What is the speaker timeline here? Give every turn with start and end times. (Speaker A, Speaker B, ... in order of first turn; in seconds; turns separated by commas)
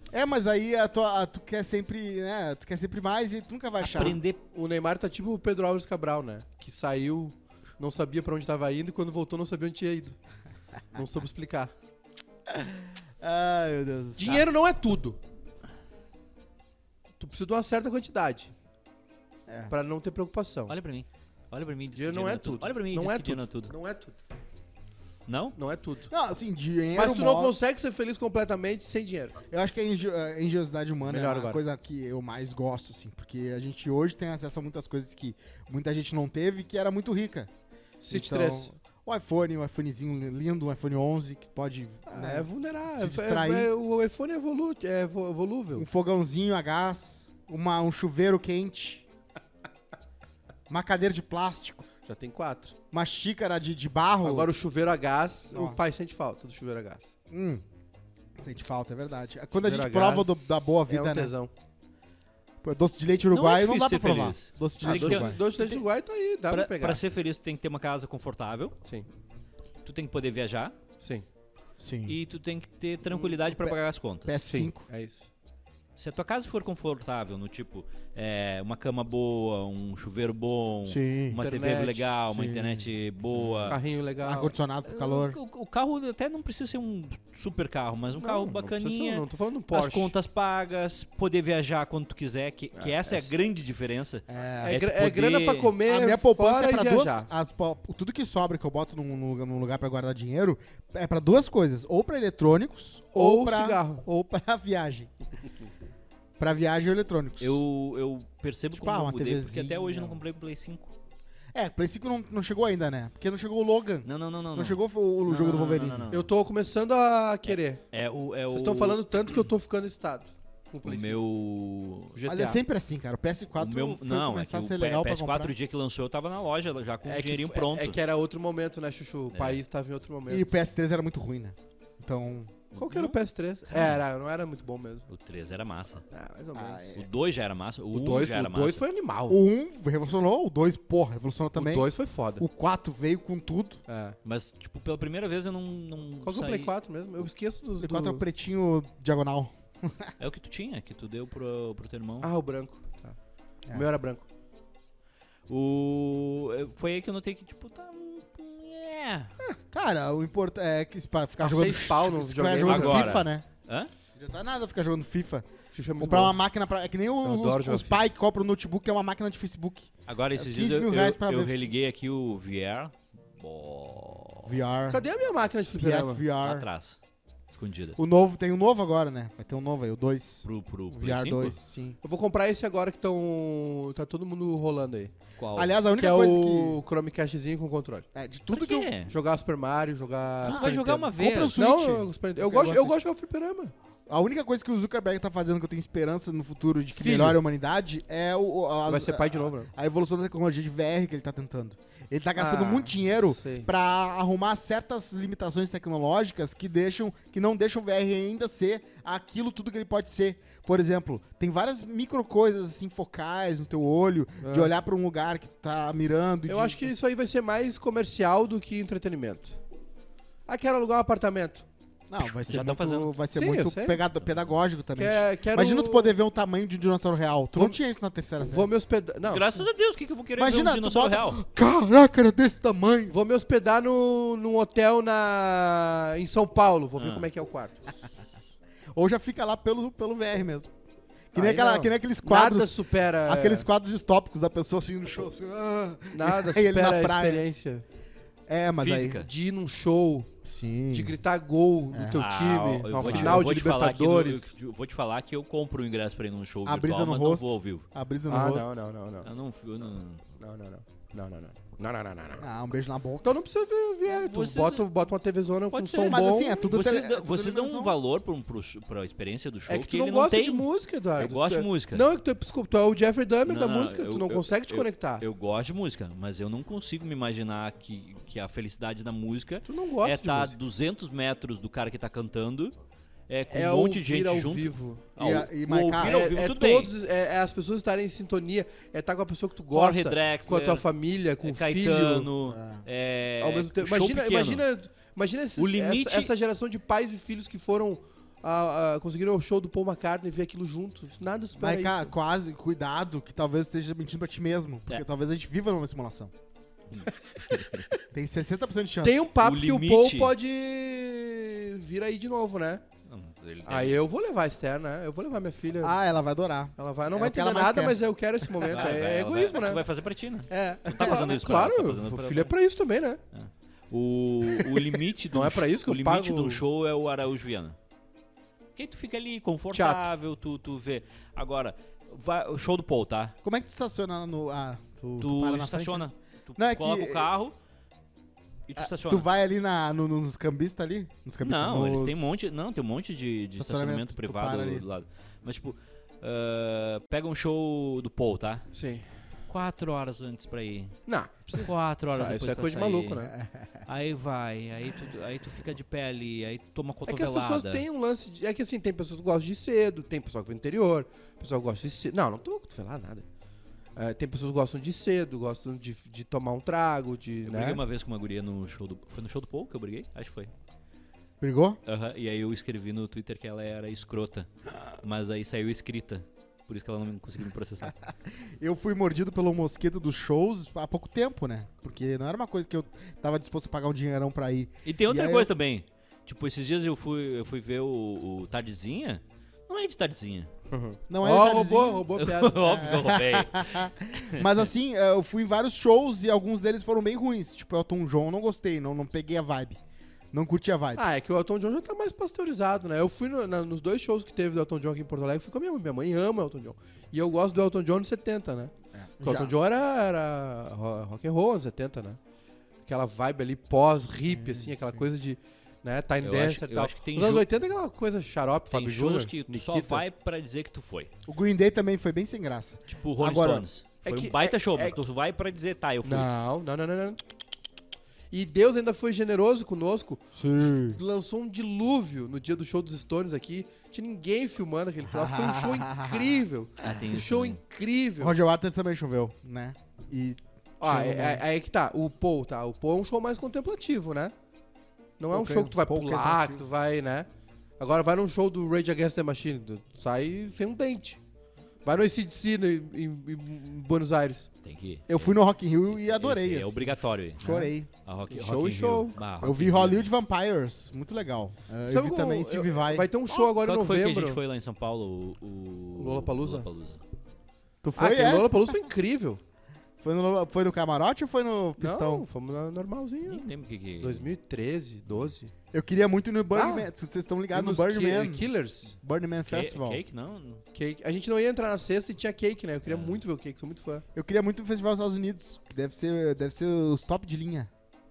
Speaker A: 0.1-4.2, Speaker B: 3.8-4.4, Speaker C: 4.5-10.2, Speaker C: 10.9-11.7, Speaker A: 12.5-14.4, Speaker C: 14.2-15.2, Speaker C: 17.2-18.5, Speaker A: 19.5-19.7, Speaker C: 19.7-20.7, Speaker B: 20.7-23.7, Speaker C: 21.9-24.2, Speaker B: 25.3-25.6, Speaker C: 25.6-26.1, Speaker A: 26.1-27.5, Speaker C: 26.9-29.4, Speaker A: 29.5-37.5, Speaker C: 31.1-31.6, Speaker C: 38.0-38.7, Speaker A: 38.1-43.7, Speaker C: 42.1-45.9, Speaker A: 45.8-49.0, Speaker A: 50.7-51.9, Speaker C: 52.0-52.8, Speaker A: 52.9-54.5, Speaker C: 54.2-57.1, Speaker A: 55.5-55.8, Speaker A: 57.3-57.6, Speaker A: 58.4-61.3, Speaker C: 59.6-61.5, Speaker A: 62.6-65.8, Speaker B: 63.3-65.3, Speaker C: 64.9-67.0, Speaker B: 66.5-68.8, Speaker B: 69.8-70.8, Speaker C: 71.0-71.2, Speaker A: 71.8-72.2, Speaker B: 72.1-74.4, Speaker A: 74.3-74.8, Speaker C: 74.4-75.3, Speaker B: 76.0-83.8, Speaker A: 80.9-81.4, Speaker C: 81.4-82.1, Speaker A: 82.3-85.4, Speaker C: 83.7-84.5, Speaker B: 84.9-95.7, Speaker C: 88.2-90.1, Speaker C: 92.8-93.3, Speaker A: 94.3-94.8, Speaker C: 94.6-97.3, Speaker A: 95.9-105.1, Speaker C: 103.1-104.0, Speaker A: 106.4-107.6, Speaker B: 107.4-110.9, Speaker A: 108.7-110.2, Speaker A: 111.5-116.1, Speaker B: 114.0-116.3, Speaker C: 116.1-117.8, Speaker B: 117.9-119.0, Speaker C: 118.5-121.2, Speaker B: 120.8-122.1, Speaker C: 122.1-122.6, Speaker A: 122.3-125.5, Speaker B: 123.6-128.0, Speaker C: 127.0-130.6, Speaker B: 129.3-129.6, Speaker A: 130.3-132.6, Speaker B: 132.7-133.2, Speaker C: 132.8-135.1, Speaker B: 133.7-134.0, Speaker B: 135.1-136.0, Speaker C: 136.1-136.9, Speaker A: 136.6-137.0, Speaker B: 136.9-138.8, Speaker C: 137.9-139.4, Speaker A: 139.3-143.8, Speaker C: 141.6-142.4, Speaker C: 143.9-144.2, Speaker B: 144.2-146.7, Speaker C: 146.2-148.2, Speaker A: 147.8-150.1, Speaker B: 150.2-152.3, Speaker C: 152.2-153.2, Speaker C: 153.7-154.2, Speaker B: 155.5-159.3, Speaker A: 159.7-163.4, Speaker C: 161.4-163.2, Speaker B: 162.7-163.9, Speaker A: 164.2-165.5, Speaker C: 165.7-166.4, Speaker A: 166.0-171.7, Speaker C: 167.2-168.0, Speaker B: 170.1-174.5, Speaker A: 174.4-175.1, Speaker C: 174.9-176.2, Speaker A: 175.8-176.7, Speaker B: 176.4-177.0, Speaker B: 177.5-178.0, Speaker A: 178.0-182.0, Speaker B: 180.4-181.6, Speaker C: 182.0-185.1, Speaker B: 185.4-185.8, Speaker A: 185.6-186.8, Speaker C: 186.0-188.1, Speaker A: 188.2-188.9, Speaker B: 188.5-189.1, Speaker C: 189.1-193.7, Speaker B: 190.4-191.6, Speaker A: 190.4-193.0, Speaker A: 194.1-216.8, Speaker C: 196.9-197.4, Speaker C: 198.9-199.7, Speaker C: 202.4-203.7, Speaker C: 214.4-214.7, Speaker C: 216.5-219.6, Speaker C: 220.5-221.7, Speaker A: 222.1-228.7, Speaker B: 222.4-223.1, Speaker C: 223.3-224.0, Speaker B: 224.2-224.5, Speaker C: 225.0-226.2, Speaker C: 228.5-229.7, Speaker B: 229.3-231.4, Speaker A: 230.4-233.2, Speaker C: 233.1-237.9, Speaker B: 237.0-237.2, Speaker A: 238.9-240.7, Speaker A: 241.3-247.4, Speaker C: 241.3-243.7, Speaker C: 246.1-247.8, Speaker A: 248.5-249.2, Speaker B: 248.8-249.3, Speaker C: 249.1-250.3, Speaker A: 250.4-251.2, Speaker C: 250.9-254.6, Speaker A: 251.9-252.2, Speaker B: 252.2-257.9, Speaker A: 253.0-253.4, Speaker A: 256.6-258.7, Speaker C: 258.3-259.3, Speaker B: 259.2-260.2, Speaker C: 260.4-262.4, Speaker A: 262.4-263.4, Speaker C: 263.2-266.7, Speaker B: 264.1-264.9, Speaker B: 265.7-270.7, Speaker A: 266.1-268.0, Speaker C: 269.7-275.2, Speaker B: 271.2-272.0, Speaker B: 273.5-282.8, Speaker C: 279.6-280.6, Speaker B: 283.3-286.9, Speaker C: 283.5-285.1, Speaker A: 285.2-286.2, Speaker C: 286.0-292.3, Speaker B: 289.7-290.8, Speaker B: 291.4-294.6, Speaker A: 292.5-292.8, Speaker C: 293.4-302.1, Speaker B: 295.6-296.3, Speaker A: 301.6-306.3, Speaker B: 306.9-307.9, Speaker A: 308.1-309.3, Speaker C: 309.0-312.8, Speaker B: 309.4-310.3, Speaker B: 313.1-314.0, Speaker C: 313.7-316.0, Speaker A: 315.8-318.0, Speaker C: 316.8-319.8, Speaker A: 318.6-318.9, Speaker B: 318.7-322.5, Speaker A: 320.5-321.3, Speaker C: 320.9-323.2, Speaker B: 323.3-327.8, Speaker C: 325.3-326.6, Speaker B: 328.8-333.4, Speaker C: 329.7-330.1, Speaker A: 333.4-337.3, Speaker B: 335.2-337.6, Speaker B: 338.7-339.3, Speaker A: 338.8-342.4, Speaker B: 341.4-348.6, Speaker A: 343.6-344.8, Speaker C: 348.7-349.1, Speaker B: 349.5-351.0, Speaker C: 351.1-353.3, Speaker B: 351.5-353.2, Speaker A: 353.3-353.8, Speaker B: 353.9-357.8, Speaker C: 357.1-363.2, Speaker C: 364.0-367.8, Speaker B: 367.5-370.5, Speaker A: 371.4-371.8, Speaker B: 371.9-374.5, Speaker B: 375.0-377.9, Speaker A: 377.9-385.5, Speaker B: 384.9-390.5, Speaker C: 390.7-393.0, Speaker A: 391.1-392.1, Speaker B: 392.2-394.4, Speaker A: 392.7-399.8, Speaker A: 400.3-401.1, Speaker C: 401.0-412.2, Speaker A: 408.9-409.5, Speaker C: 412.9-420.1, Speaker A: 414.3-415.0, Speaker B: 416.2-417.5, Speaker B: 418.7-421.1, Speaker A: 421.3-423.6, Speaker B: 422.9-426.3, Speaker C: 424.0-425.0, Speaker C: 426.0-427.2, Speaker C: 428.3-430.2, Speaker A: 430.4-431.0, Speaker C: 430.9-438.4, Speaker A: 435.1-437.0, Speaker B: 436.8-437.6, Speaker A: 438.2-441.4, Speaker C: 440.8-444.3, Speaker C: 445.2-447.3, Speaker A: 445.3-446.6, Speaker C: 447.8-451.2, Speaker C: 451.9-454.5, Speaker B: 454.6-460.1, Speaker A: 455.1-457.9, Speaker C: 458.3-459.2, Speaker A: 459.4-463.1, Speaker C: 461.9-464.4, Speaker B: 463.4-467.0, Speaker C: 466.0-466.7, Speaker A: 467.8-468.6, Speaker C: 468.0-469.4, Speaker A: 470.0-472.3, Speaker C: 471.8-475.5, Speaker B: 473.3-474.3, Speaker A: 475.7-478.5, Speaker C: 476.5-476.9, Speaker C: 477.5-478.9, Speaker A: 479.0-480.0, Speaker B: 479.5-480.6, Speaker C: 480.7-484.1, Speaker B: 482.9-483.2, Speaker A: 484.1-487.7